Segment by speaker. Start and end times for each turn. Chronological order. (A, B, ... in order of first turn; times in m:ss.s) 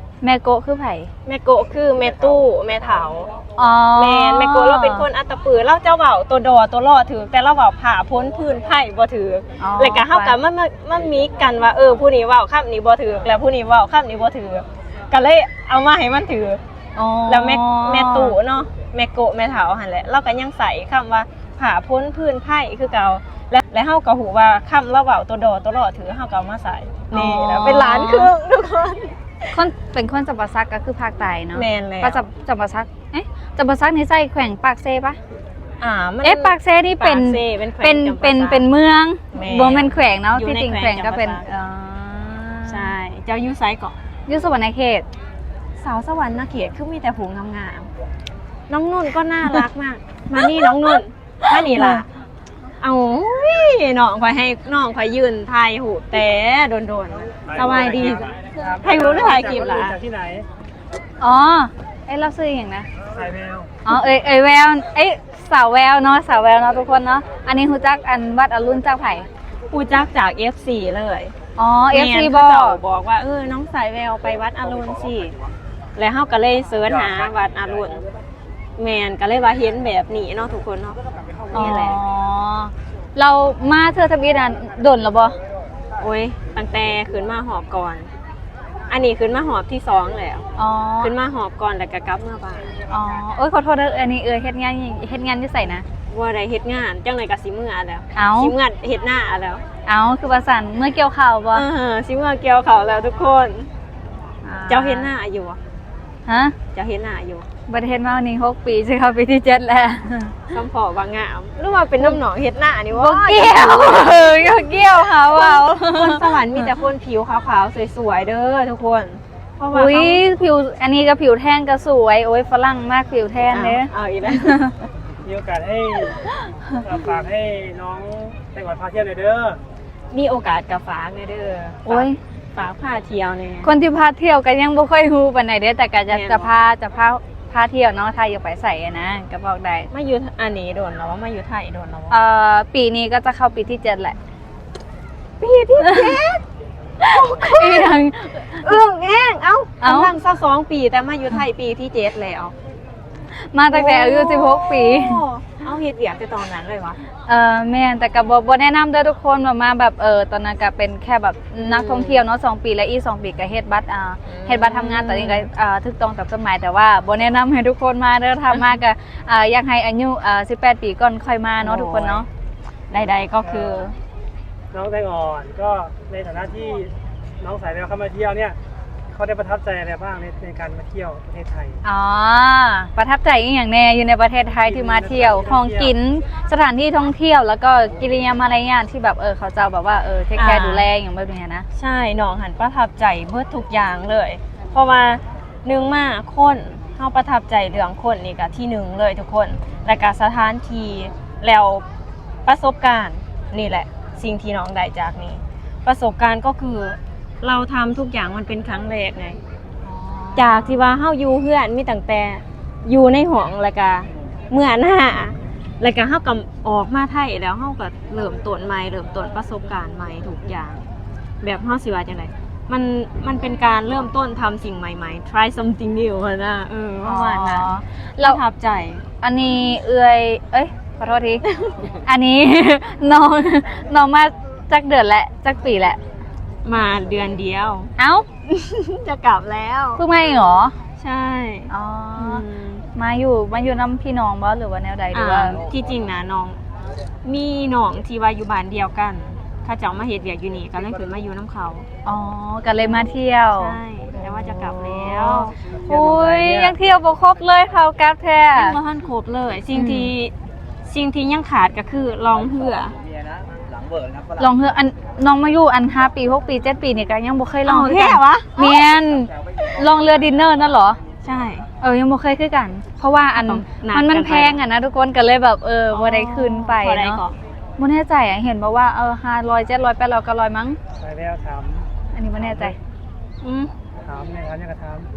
0:00.2-0:01.1 A
0:01.2-0:03.3 B
0:03.6-0:05.1 A
0:03.9-0:16.6 B
0:09.6-0:10.3 A
0:16.9-0:18.4 A
0:17.3-0:29.6 B
0:27.1-0:28.3 A
0:29.5-0:35.2 A
0:31.5-0:32.2 B
0:35.8-0:38.6 B
0:36.2-0:42.9 A
0:39.3-0:41.4 B
0:42.7-0:43.9 B
0:44.3-0:45.1 A
0:45.8-0:47.9 B
0:48.7-0:52.1 B
0:51.5-0:52.0 A
0:52.8-1:00.0 B
0:57.6-1:00.5 C
1:01.2-1:02.9 A
1:03.1-1:03.7 C
1:03.8-1:09.2 A
1:09.7-1:11.3 B
1:11.6-1:12.8 A
1:11.9-1:15.3 B
1:16.0-1:18.0 B
1:18.8-1:22.0 B
1:21.5-1:25.4 A
1:26.0-1:28.1 B
1:28.9-1:30.5 B
1:30.6-1:31.1 A
1:31.0-1:32.8 B
1:32.9-1:35.8 A
1:36.1-1:39.6 B
1:38.1-1:38.5 A
1:39.8-1:41.6 A
1:41.5-1:43.7 B
1:44.4-1:45.1 A
1:44.7-1:45.6 B
1:46.3-1:46.5 A
1:46.7-1:47.4 B
1:47.7-1:50.4 A
1:50.5-1:54.3 B
1:52.9-1:56.4 A
1:55.2-2:00.2 B
1:59.7-2:04.7 A
2:03.5-2:04.8 B
2:05.2-2:06.2 C
2:06.2-2:06.8 A
2:06.8-2:09.6 C
2:10.1-2:13.7 B
2:11.8-2:12.2 A
2:13.6-2:19.9 A
2:16.1-2:16.5 B
2:19.9-2:22.1 B
2:22.1-2:24.2 A
2:25.4-2:26.4 B
2:25.8-2:26.2 A
2:27.0-2:28.8 A
2:27.0-2:32.5 B
2:29.8-2:30.1 A
2:33.3-2:35.2 A
2:33.7-2:37.0 B
2:37.3-2:52.2 A
2:41.6-2:42.2 B
2:44.3-2:45.5 B
2:51.6-2:52.2 B
2:52.9-2:54.0 B
2:54.7-2:58.6 C
2:59.1-3:01.8 C
3:01.8-3:11.6 A
3:04.6-3:05.9 C
3:10.4-3:10.8 B
3:11.8-3:21.8 B
3:22.4-3:29.4 B
3:29.8-3:30.8 A
3:30.4-3:40.8 B
3:41.4-3:49.0 B
3:47.0-3:48.4 A
3:49.2-3:51.4 A
3:52.0-3:56.0 A
3:56.6-3:57.9 B
3:58.0-3:58.3 A
3:58.5-4:00.0 B
4:00.0-4:00.7 A
4:01.0-4:02.8 B
4:01.7-4:02.4 A
4:02.9-4:05.6 A
4:05.1-4:06.6 B
4:07.2-4:11.9 B
4:12.0-4:18.8 A
4:12.8-4:15.6 B
4:15.7-4:16.8 C
4:18.5-4:20.3 B
4:19.7-4:20.1 A
4:20.8-4:22.9 B
4:24.4-4:31.0 A
4:27.6-4:28.8 B
4:31.2-4:31.7 B
4:31.8-4:37.2 A
4:33.3-4:34.6 B
4:35.9-4:37.4 B
4:37.8-4:40.8 A
4:41.0-4:41.8 C
4:42.1-4:42.8 A
4:43.4-4:43.7 B
4:44.1-4:45.1 C